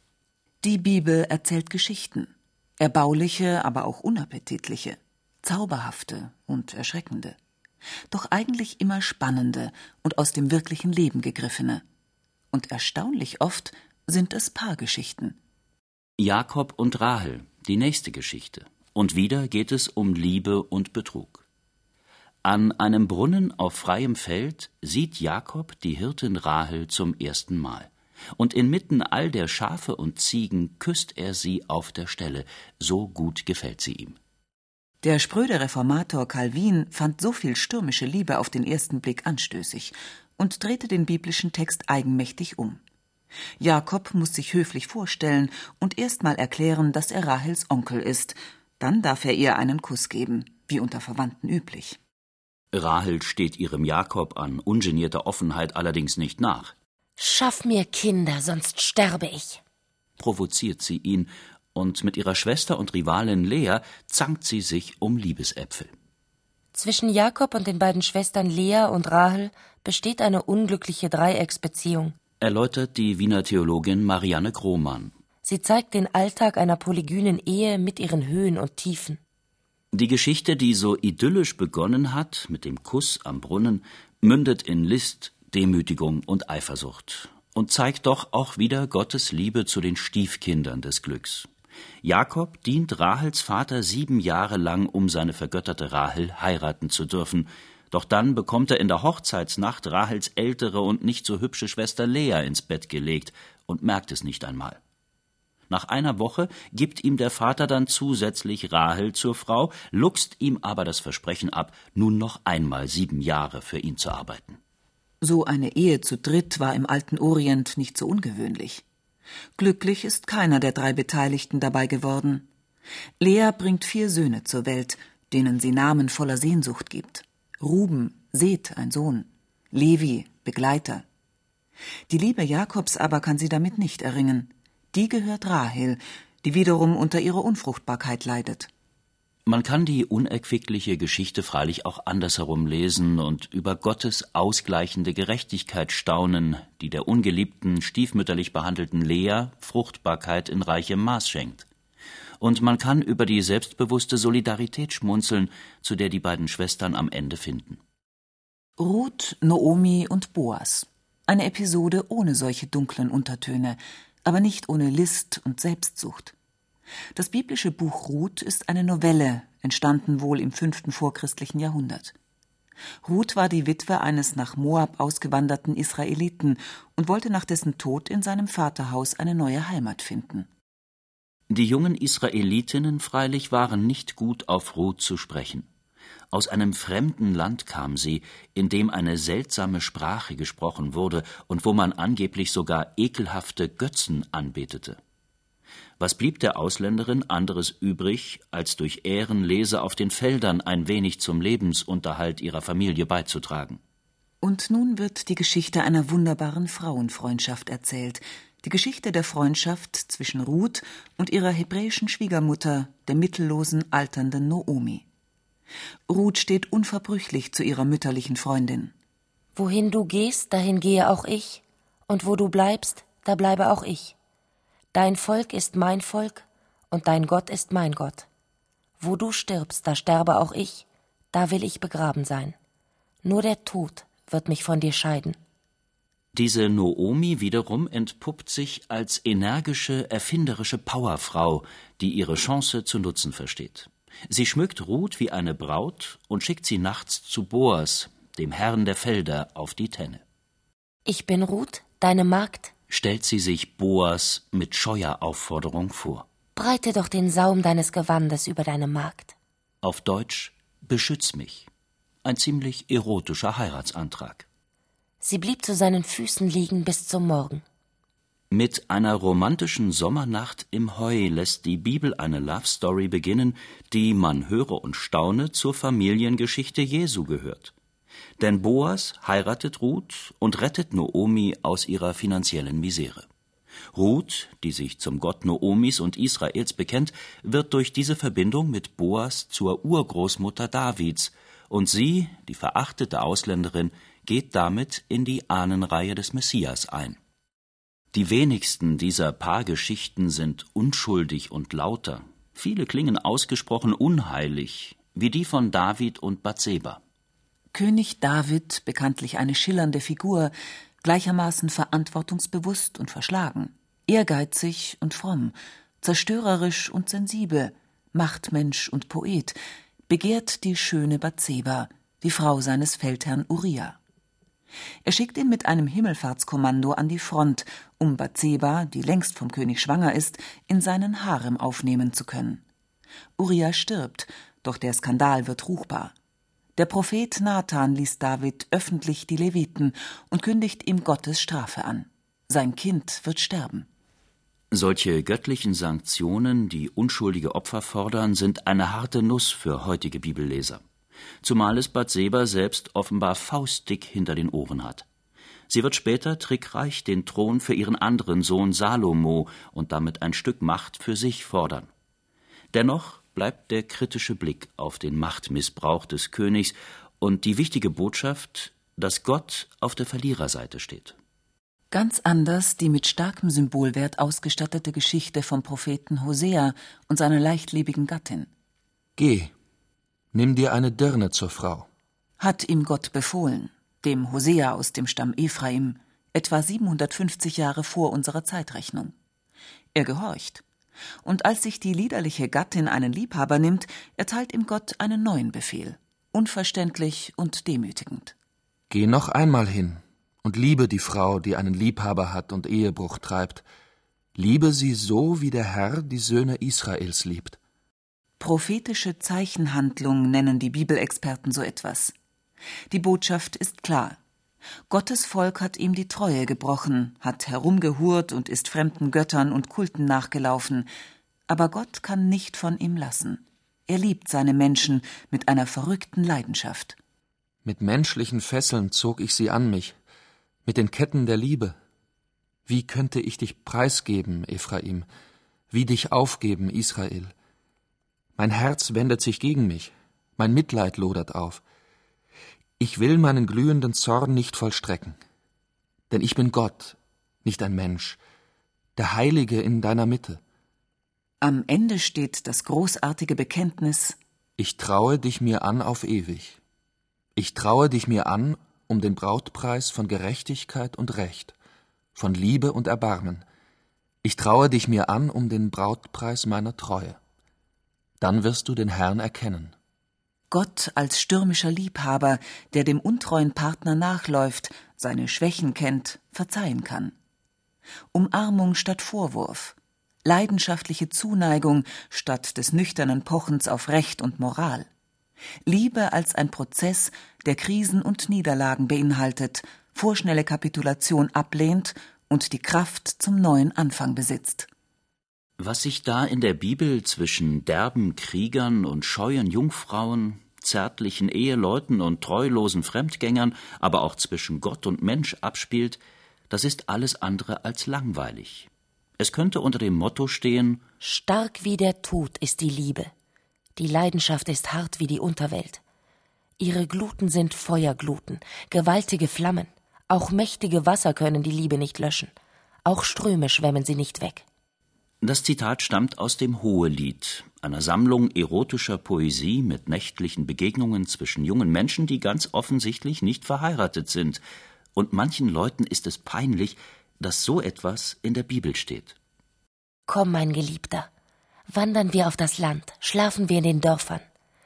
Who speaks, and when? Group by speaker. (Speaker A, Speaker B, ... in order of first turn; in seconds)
Speaker A: 0.6-7.4, 8.1-11.8, 12.5-15.4, 35.0-42.8, 43.6-52.0, 115.2-118.8, 119.6-122.5, 123.2-131.1, 132.1-138.7, 158.8-166.3, 167.2-172.1, 173.0-180.5, 204.4-215.1, 216.1-218.9, 307.7-319.6, 320.1-324.0, 325.1-332.6, 333.4-336.1, 336.8-343.9, 371.9-378.5, 382.4-389.1, 389.9-390.6, 391.2-398.4, 408.4-412.1, 412.9-414.2, 414.9-420.9, 421.5-427.0, 451.4-454.2, 470.5-477.1, 478.1-484.9, 485.7-494.7
Speaker B: 16.2-21.4, 22.4-34.2, 52.7-56.7, 60.2-65.9, 72.4-75.1, 79.9-91.5, 92.0-104.8, 105.7-114.6, 139.4-151.7, 152.4-157.8, 181.5-185.7, 186.3-195.0, 196.0-203.8, 236.3-250.2, 252.9-256.3, 259.8-261.7, 262.2-264.5, 268.5-277.7, 278.4-283.3, 283.9-297.2, 298.1-307.0, 344.7-350.8, 351.4-355.1, 355.7-361.9, 362.7-371.2, 495.6-506.0, 506.5-510.8, 525.2-534.4, 535.0-539.2
Speaker C: 57.2-59.6, 66.7-72.2, 75.4-79.2, 219.6-224.2, 224.9-228.3, 229.0-232.6, 233.2-235.4, 251.1-252.7, 256.6-259.3, 265.2-267.6, 511.0-513.1, 513.8-515.8, 516.6-522.3, 522.9-524.4, 540.1-541.1, 541.7-544.2
Speaker D: 379.2-379.5, 380.3-381.9, 398.9-403.6, 404.4-407.6, 427.6-430.0, 430.6-431.8, 432.7-435.1, 435.7-437.3, 438.4-441.6, 442.8-445.2, 446.1-448.2, 449.0-450.4, 454.6-456.6, 457.4-461.5, 462.1-463.4, 464.2-467.2, 468.2-469.8